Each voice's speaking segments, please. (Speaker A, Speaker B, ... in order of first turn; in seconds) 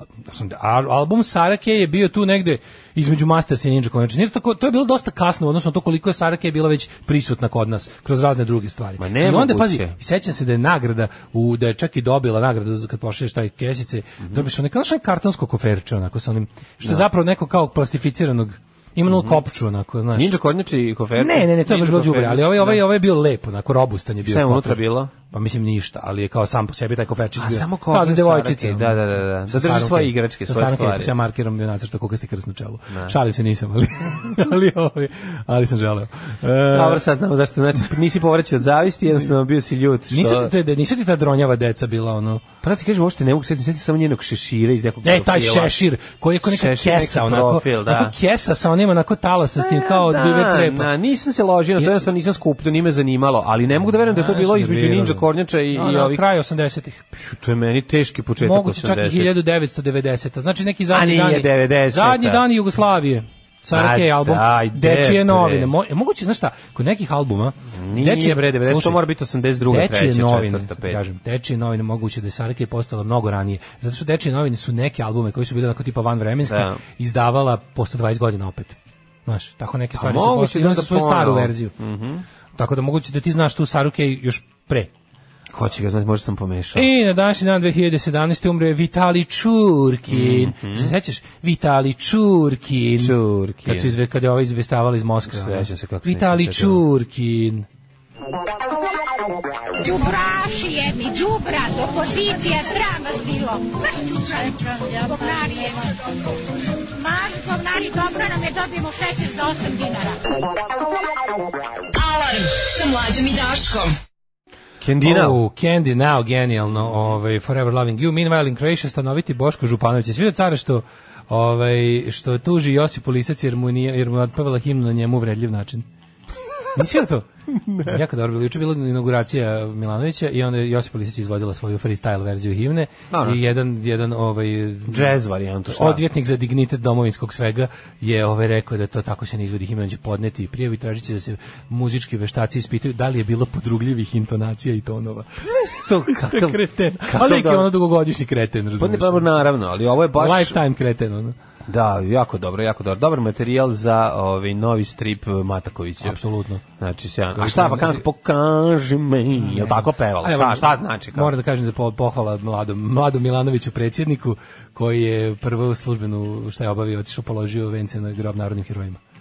Speaker A: 0.2-20.3, 21.2-37.0, 40.1-42.4, 45.0-50.9, 54.1-57.0, 58.4-69.0, 69.7-81.7, 82.5-84.9, 86.7-97.7, 115.0-125.8, 126.7-127.2, 127.8-135.1, 135.7-145.5, 146.1-149.3, 150.1-151.3, 156.0-156.6, 157.3-158.0, 159.4-169.0
Speaker B: 9.0-9.9, 14.2-14.5, 19.1-19.4, 20.1-22.8, 24.2-25.1, 27.4-31.1, 32.9-33.2, 36.7-40.5, 42.6-45.7, 46.4-48.1, 49.6-56.2, 57.1-59.3, 60.9-62.4, 63.7-65.7, 67.7-71.0, 76.5-76.8, 79.9-82.2, 85.5-86.9, 90.1-90.9, 93.0-94.0, 95.2-96.8, 114.8-115.4, 127.5-128.0, 133.1-133.4, 134.9-136.0, 145.4-147.7, 148.8-150.6, 151.7-156.2, 156.8-161.3
Speaker C: 99.8-106.0, 106.9-110.4
Speaker D: 111.9-113.9